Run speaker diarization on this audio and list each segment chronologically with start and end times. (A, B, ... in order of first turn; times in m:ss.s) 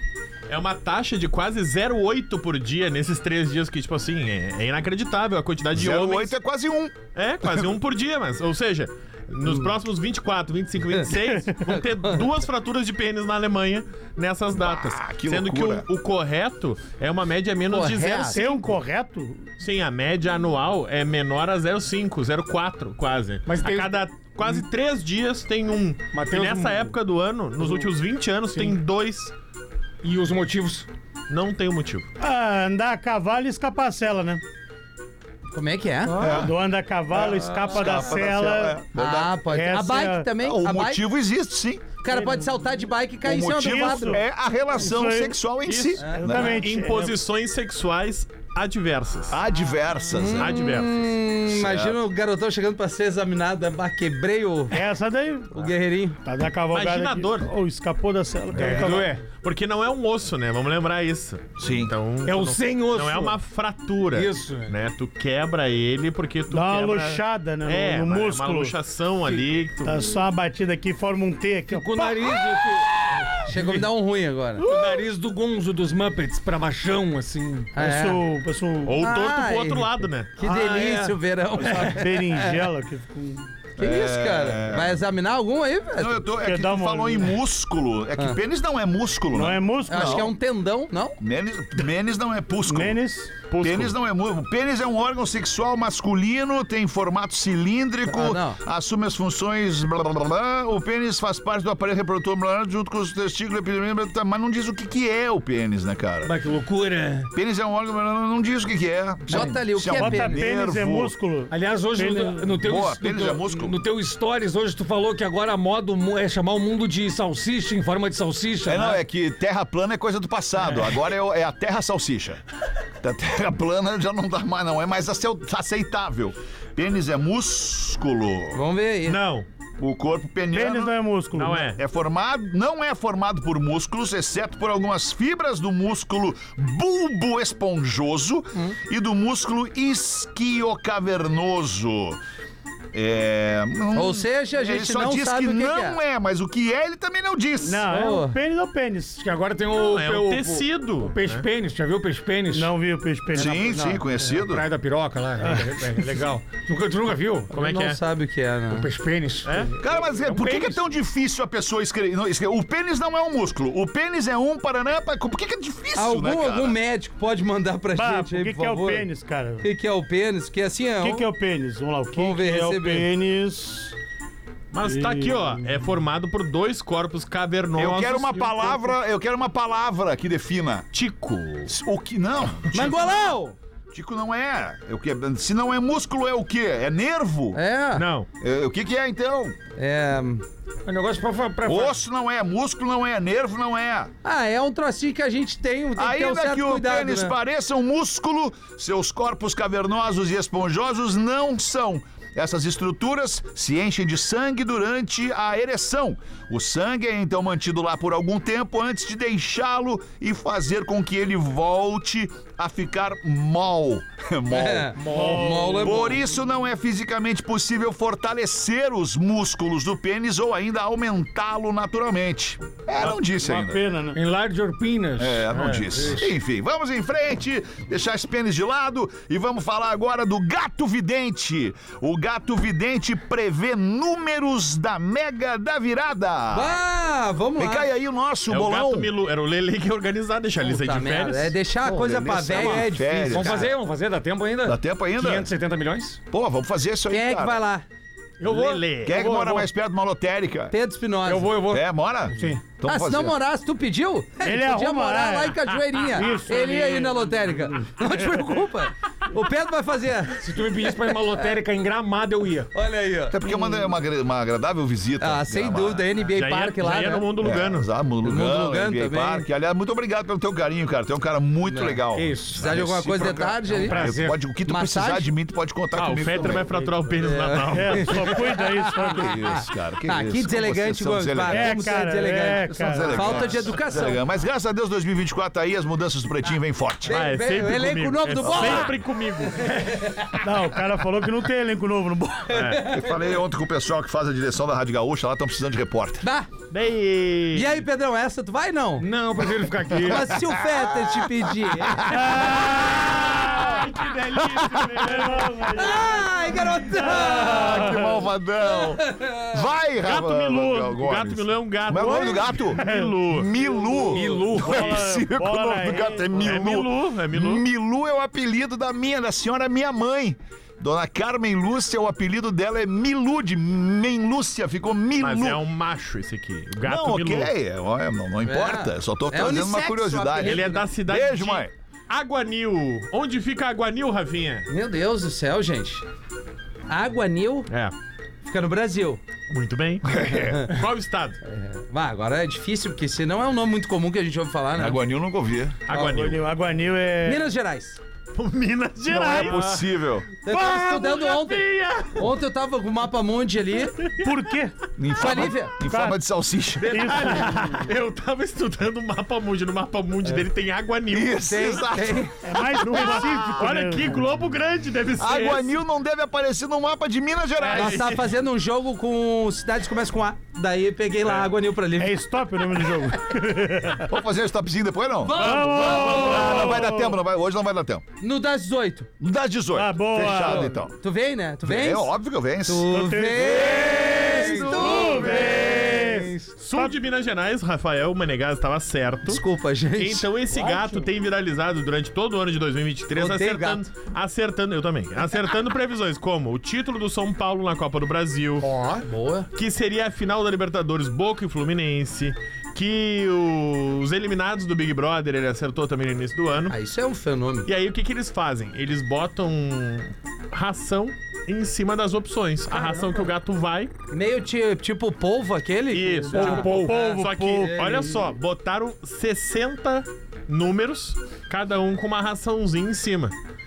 0:00.5-0:06.4 A
0:05.7-0:07.8 B
0:07.2-0:18.6 A
0:14.6-0:15.9 B
0:17.7-0:18.4 C
0:18.3-0:19.5 D
0:19.6-0:29.3 A
0:23.5-0:24.6 E
0:26.1-0:27.0 E
0:27.6-0:27.9 E
0:28.5-0:28.8 E
0:30.0-0:30.9 E
0:31.3-0:32.1 A
0:32.2-0:34.4 D
0:35.5-0:36.2 C
0:36.0-0:36.5 E
0:36.2-0:36.5 B
0:36.3-0:38.8 D
0:37.1-0:39.4 B
0:39.0-0:41.0 C
0:39.5-0:40.3 D
0:40.4-0:41.9 B
0:42.0-0:44.2 C
0:43.2-0:46.6 B
0:43.6-0:44.2 D
0:44.8-0:45.4 D
0:45.7-0:49.4 A
0:46.0-0:46.2 C
0:46.1-0:47.2 D
0:49.3-0:50.6 B
0:50.1-0:54.8 C
0:50.4-0:51.1 A
0:51.5-0:52.0 B
0:54.7-0:55.5 D
0:55.5-0:56.2 C
0:56.2-0:59.1 D
0:56.7-0:57.5 A
0:58.5-0:59.2 E
0:58.6-1:10.1 A
1:01.6-1:01.9 B
1:02.2-1:03.4 E
1:04.1-1:04.7 E
1:06.5-1:08.8 D
1:09.3-1:09.6 E
1:09.8-1:12.4 D
1:11.7-1:13.8 E
1:13.5-1:14.6 C
1:14.6-1:17.8 E
1:14.7-1:15.0 A
1:17.7-1:18.2 C
1:17.8-1:19.1 D
1:18.9-1:20.3 A
1:19.0-1:22.7 C
1:20.4-1:21.2 E
1:21.6-1:23.5 D
1:23.8-1:25.0 B
1:23.8-1:26.3 C
1:26.0-1:30.3 B
1:26.3-1:27.3 D
1:29.3-1:30.3 D
1:29.9-1:31.2 C
1:31.2-1:33.0 B
1:32.7-1:33.9 D
1:33.6-1:46.3 B
1:38.0-1:38.6 C
1:46.2-1:47.3 E
1:47.3-1:51.1 B
1:49.3-1:50.5 C
1:49.3-1:49.6 E
1:49.8-1:52.6 D
1:51.5-1:59.0 E
1:52.6-1:53.8 B
1:58.7-2:02.4 B
2:03.0-2:08.6 B
2:08.5-2:09.2 C
2:09.1-2:09.5 A
2:09.8-2:11.0 B
2:10.5-2:11.7 D
2:11.4-2:11.8 A
2:11.7-2:22.2 B
2:22.9-2:27.9 B
2:23.9-2:26.0 C
2:27.6-2:29.2 D
2:27.9-2:28.4 C
2:29.2-2:32.7 E
2:29.7-2:31.5 A
2:32.5-2:34.0 D
2:33.3-2:34.7 B
2:34.2-2:37.5 E
2:35.4-2:36.3 D
2:37.5-2:38.0 A
2:37.5-2:38.9 C
2:38.7-2:40.9 E
2:39.4-2:39.7 A
2:39.8-2:46.8 B
2:46.0-2:49.1 C
2:47.9-2:49.7 D
2:49.6-2:51.3 C
2:51.0-2:54.0 D
2:52.2-2:53.1 C
2:54.7-2:58.9 A
2:54.8-2:55.7 D
2:57.8-3:00.9 B
3:00.9-3:01.7 A
3:01.7-3:03.2 B
3:02.7-3:03.6 C
3:03.9-3:07.6 B
3:07.5-3:08.0 C
3:08.0-3:08.3 A
3:08.4-3:09.6 B
3:09.8-3:10.4 C
3:10.9-3:12.0 E
3:11.6-3:14.1 B
3:14.2-3:17.4 C
3:16.0-3:35.0 B
3:34.5-3:36.2 C
3:35.0-3:36.1 E
3:35.1-3:36.0 D
3:35.8-3:43.8 B
3:43.0-3:44.2 D
3:44.1-3:46.3 E
3:45.2-3:56.8 B
3:56.5-3:57.9 C
3:57.6-3:59.1 B
3:58.5-4:01.6 A
4:00.6-4:03.7 C
4:01.9-4:06.2 E
4:01.9-4:03.7 B
4:04.6-4:05.5 B
4:06.3-4:07.6 B
4:07.1-4:07.9 C
4:08.4-4:09.7 A
4:08.4-4:08.8 E
4:09.0-4:10.7 B
4:10.7-4:11.6 C
4:11.2-4:12.6 E
4:11.7-4:13.4 B
4:12.8-4:21.1 C
4:14.4-4:18.6 D
4:20.4-4:22.7 E
4:22.7-4:23.9 C
4:23.3-4:26.1 B
4:25.2-4:27.3 C
4:26.3-4:27.9 A
4:27.4-4:36.7 B
4:28.2-4:29.5 C
4:31.6-4:32.0 C
4:32.2-4:32.7 E
4:32.5-4:34.1 C
4:33.7-4:34.4 E
4:34.7-4:35.3 C
4:36.0-4:38.5 A
4:37.2-4:44.2 C
4:37.7-4:39.4 D
4:39.1-4:41.8 B
4:41.5-4:43.5 D
4:42.8-4:47.3 B
4:47.1-4:49.0 C
4:47.1-4:49.8 A
4:48.4-4:49.0 B
4:49.6-4:50.3 C
4:50.4-4:52.7 D
4:52.5-4:53.2 C
4:52.5-4:52.8 A
4:52.9-4:56.3 B
4:56.2-4:56.5 C
4:56.7-4:57.8 A
4:57.5-4:59.1 C
4:59.0-5:00.4 E
5:00.0-5:02.1 C
5:00.2-5:03.6 B
5:02.0-5:03.8 D
5:03.1-5:05.9 A
5:04.5-5:04.8 B
5:04.7-5:08.2 D
5:05.7-5:08.1 C
5:07.2-5:25.6 B
5:08.6-5:09.5 C
5:10.0-5:14.0 A
5:12.7-5:13.1 D
5:14.0-5:15.0 E
5:14.1-5:16.7 D
5:16.4-5:17.6 A
5:25.2-5:27.5 A
5:26.8-5:31.7 B
5:28.4-5:30.9 C
5:30.4-5:34.7 A
5:34.7-5:36.0 C
5:36.9-5:37.7 C
5:37.7-5:37.9 A
5:38.4-5:39.2 C
5:39.5-5:41.4 A
5:40.0-5:40.7 B
5:40.4-5:40.7 C
5:41.4-5:45.0 C
5:44.8-5:45.8 B
5:45.9-5:46.4 A
5:45.9-5:46.3 C
5:46.1-5:47.5 D
5:47.2-5:48.0 C
5:48.4-5:49.9 A
5:49.1-5:49.6 D
5:49.1-5:50.3 B
5:50.4-5:54.0 C
5:50.5-5:52.3 A
5:50.5-5:51.1 D
5:54.2-5:54.7 D
5:55.0-5:57.1 B
5:55.2-5:55.7 C
5:55.8-5:56.2 D
5:56.8-6:01.8 A
5:56.8-5:57.9 D
6:01.1-6:03.7 B
6:01.4-6:02.4 C
6:02.4-6:04.2 D
6:02.8-6:05.8 A
6:05.2-6:08.0 B
6:07.6-6:08.4 A
6:07.7-6:12.2 C
6:12.0-6:14.1 D
6:14.1-6:15.5 B
6:15.2-6:16.8 C
6:15.4-6:17.2 D
6:15.6-6:16.3 A
6:16.0-6:18.0 B
6:18.2-6:19.1 C
6:19.2-6:20.9 B
6:19.8-6:20.8 D
6:20.3-6:22.1 C
6:21.6-6:22.9 B
6:22.6-6:26.3 C
6:22.9-6:26.9 D
6:23.6-6:25.7 B
6:23.9-6:26.2 E
6:26.6-6:29.4 A
6:29.3-6:30.7 C
6:30.0-6:38.7 A
6:30.6-6:31.0 E
6:33.1-6:33.9 C
6:38.6-6:39.0 E
6:39.0-6:39.5 C
6:39.6-6:46.7 A
6:46.7-6:47.7 C
6:47.7-6:53.9 A
6:52.7-6:53.3 C
6:54.1-6:58.1 C
6:55.9-7:03.4 A
6:56.3-6:57.0 E
6:56.4-6:58.2 D